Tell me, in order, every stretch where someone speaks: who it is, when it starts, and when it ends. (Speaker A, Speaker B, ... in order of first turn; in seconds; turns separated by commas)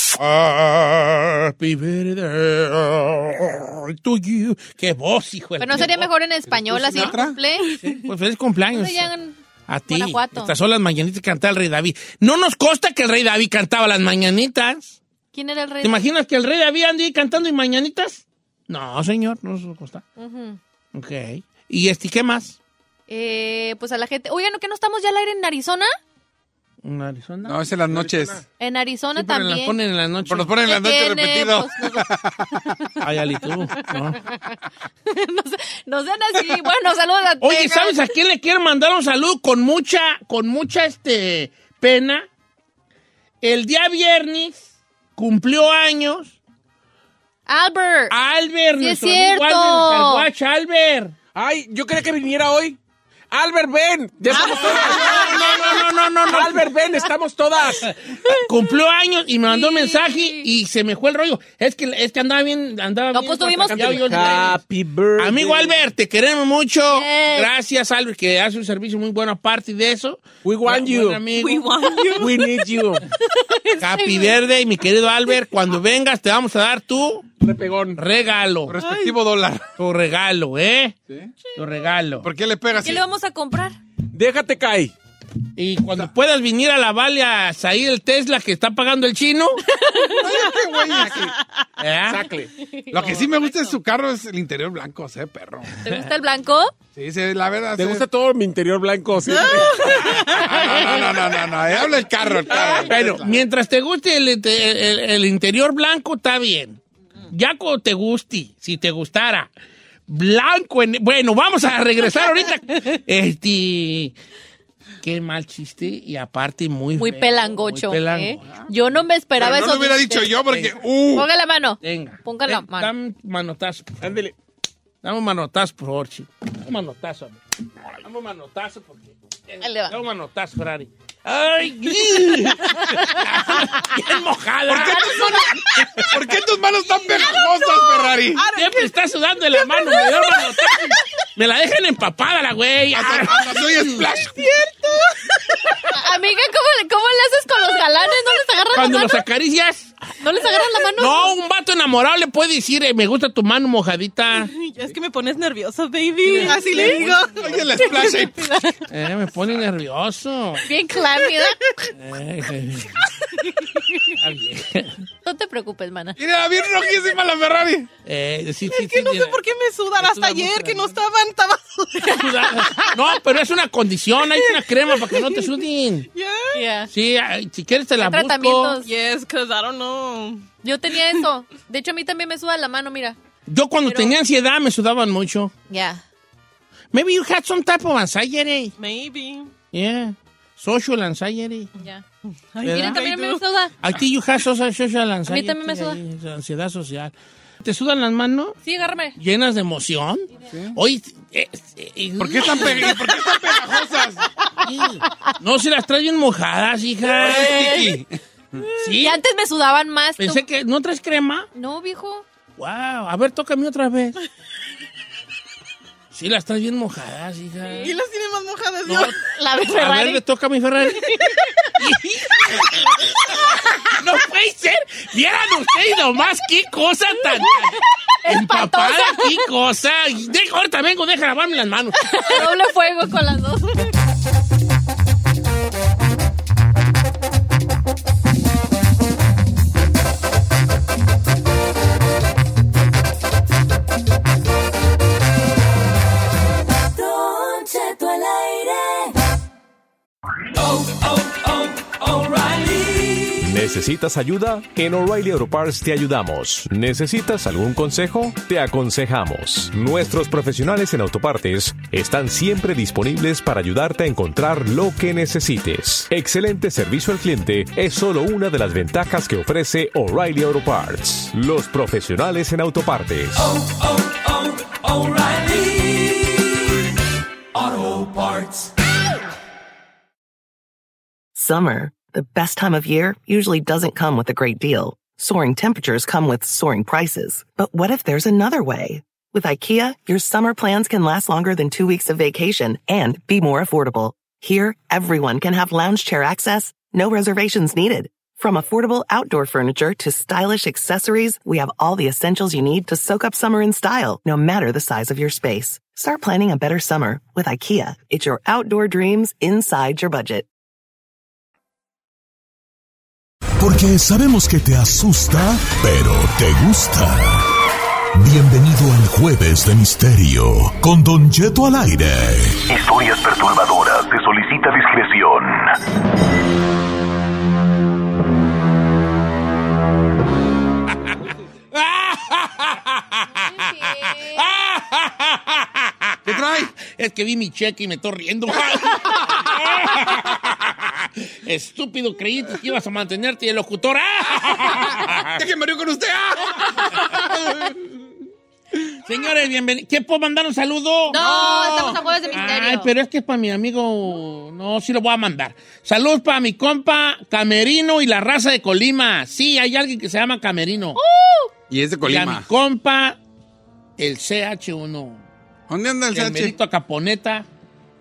Speaker A: 0.2-6.1, Speaker B: 5.6-7.8, Speaker C: 6.5-7.4, Speaker A: 7.8-9.1, Speaker B: 8.7-9.4, Speaker A: 9.7-15.0, Speaker B: 9.9-10.5, Speaker B: 15.3-16.1, Speaker A: 15.8-20.1, Speaker B: 20.2-20.6, Speaker A: 20.9-22.6, Speaker B: 23.1-25.9, Speaker A: 26.8-28.1, Speaker C: 27.4-28.4, Speaker B: 28.6-29.8, Speaker A: 29.1-30.5, Speaker C: 30.3-32.6, Speaker B: 30.6-32.1, Speaker A: 33.0-34.2, Speaker B: 33.4-34.4, Speaker B: 35.1-38.1, Speaker A: 37.4-42.3, Speaker A: 43.4-46.4, Speaker B: 47.5-48.1, Speaker A: 48.1-51.1, Speaker B: 48.8-50.3, Speaker D: 51.4-52.8, Speaker D: 53.3-55.2, Speaker A: 54.3-56.7, Speaker B: 54.6-55.8, Speaker D: 56.3-57.9, Speaker A: 58.3-64.6, Speaker B: 59.5-60.5, Speaker B: 63.1-64.6, Speaker D: 63.7-65.8, Speaker A: 65.2-71.7, Speaker B: 66.9-67.5, Speaker D: 70.4-71.2, Speaker E: 71.3-72.5, Speaker D: 72.2-73.0, Speaker B: 73.4-74.4, Speaker A: 73.8-77.3, Speaker D: 77.4-78.0, Speaker A: 78.0-78.8, Speaker C: 78.7-79.7, Speaker E: 78.8-79.2, Speaker A: 79.8-81.0, Speaker A: 81.5-82.3, Speaker C: 82.2-83.0, Speaker B: 82.8-83.8, Speaker D: 84.1-84.9, Speaker A: 85.6-89.6, Speaker B: 89.8-90.4, Speaker C: 90.2-91.3, Speaker E: 90.3-91.3, Speaker A: 91.8-92.3, Speaker D: 92.1-92.5, Speaker C: 92.9-95.8, Speaker B: 93.0-93.5, Speaker E: 93.0-93.7, Speaker B: 95.8-96.7, Speaker C: 97.0-98.1, Speaker D: 97.8-100.4, Speaker E: 99.2-100.3, Speaker C: 100.2-103.4, Speaker A: 100.3-100.8, Speaker D: 102.5-102.9, Speaker A: 102.5-106.8, Speaker A: 107.3-109.5, Speaker A: 110.1-114.2, Speaker A: 115.0-118.6, Speaker B: 117.0-120.4, Speaker C: 119.4-121.3, Speaker A: 120.5-120.8, Speaker B: 121.1-122.9, Speaker A: 121.8-124.2, Speaker D: 124.0-124.3, Speaker A: 125.0-127.4, Speaker A: 128.0-136.2, Speaker B: 129.6-129.9, Speaker C: 134.7-138.5, Speaker E: 137.3-138.9, Speaker A: 138.5-144.2, Speaker E: 139.6-140.9, Speaker C: 142.9-144.4, Speaker E: 144.3-145.3, Speaker B: 145.9-149.2, Speaker A: 148.7-149.9, Speaker B: 150.2-151.3, Speaker A: 151.0-154.5, Speaker E: 154.3-158.3, Speaker A: 156.3-157.2, Speaker B: 156.3-157.0, Speaker C: 156.8-158.5, Speaker B: 157.8-158.7, Speaker A: 158.9-160.7, Speaker B: 160.7-161.6, Speaker A: 161.9-163.0, Speaker A: 164.2-165.0, Speaker B: 165.2-166.2, Speaker C: 166.2-167.9, Speaker A: 168.1-169.4, Speaker E: 168.7-172.7, Speaker A: 170.0-171.0, Speaker A: 172.0-176.1, Speaker E: 174.3-175.5, Speaker E: 176.1-176.6, Speaker B: 176.6-176.9, Speaker A: 176.9-178.8, Speaker B: 178.0-178.9, Speaker E: 178.8-181.2, Speaker B: 180.6-183.2, Speaker A: 183.5-185.5, Speaker B: 183.9-184.2, Speaker B: 185.7-186.0, Speaker A: 186.9-188.7, Speaker E: 188.8-189.5, Speaker A: 189.7-191.7, Speaker B: 191.8-192.0, Speaker E: 192.5-193.4, Speaker A: 192.6-193.1, Speaker B: 192.6-193.7, Speaker A: 193.8-198.6, Speaker B: 195.3-196.0, Speaker B: 198.6-199.2, Speaker A: 199.2-203.1, Speaker C: 200.5-200.8, Speaker C: 202.2-204.3, Speaker A: 204.6-207.8, Speaker B: 207.2-208.0, Speaker C: 207.2-208.1, Speaker A: 208.8-209.2, Speaker B: 208.8-210.4, Speaker A: 210.2-211.5, Speaker B: 211.6-212.2, Speaker A: 212.6-214.2, Speaker A: 216.1-217.9, Speaker B: 217.7-217.9, Speaker E: 217.8-219.2, Speaker A: 218.8-222.9, Speaker B: 219.2-220.2, Speaker B: 221.1-221.4, Speaker A: 223.9-232.5, Speaker B: 228.3-229.3, Speaker B: 232.1-233.9, Speaker F: 246.9-249.2, Speaker F: 250.6-253.4, Speaker G: 253.4-273.5, Speaker F: 273.5-276.5, Speaker F: 277.5-278.7, Speaker H: 281.4-310.5, Speaker I: 313.6-317.5, Speaker I: 318.1-322.6, Speaker J: 322.7-325.7, Speaker A: 331.7-345.4, Speaker B: 333.4-334.4, Speaker C: 336.3-336.7, Speaker C: 344.6-347.8, Speaker A: 349.1-351.2, Speaker B: 351.1-352.9, Speaker C: 351.1-352.0, Speaker A: 352.3-361.0, Speaker B: 361.0-361.5, Speaker C: 361.7-362.5, Speaker A: 362.0-363.2, Speaker A: 364.0-365.2, Speaker C: 365.7-366.6, Speaker A: 366.1-367.5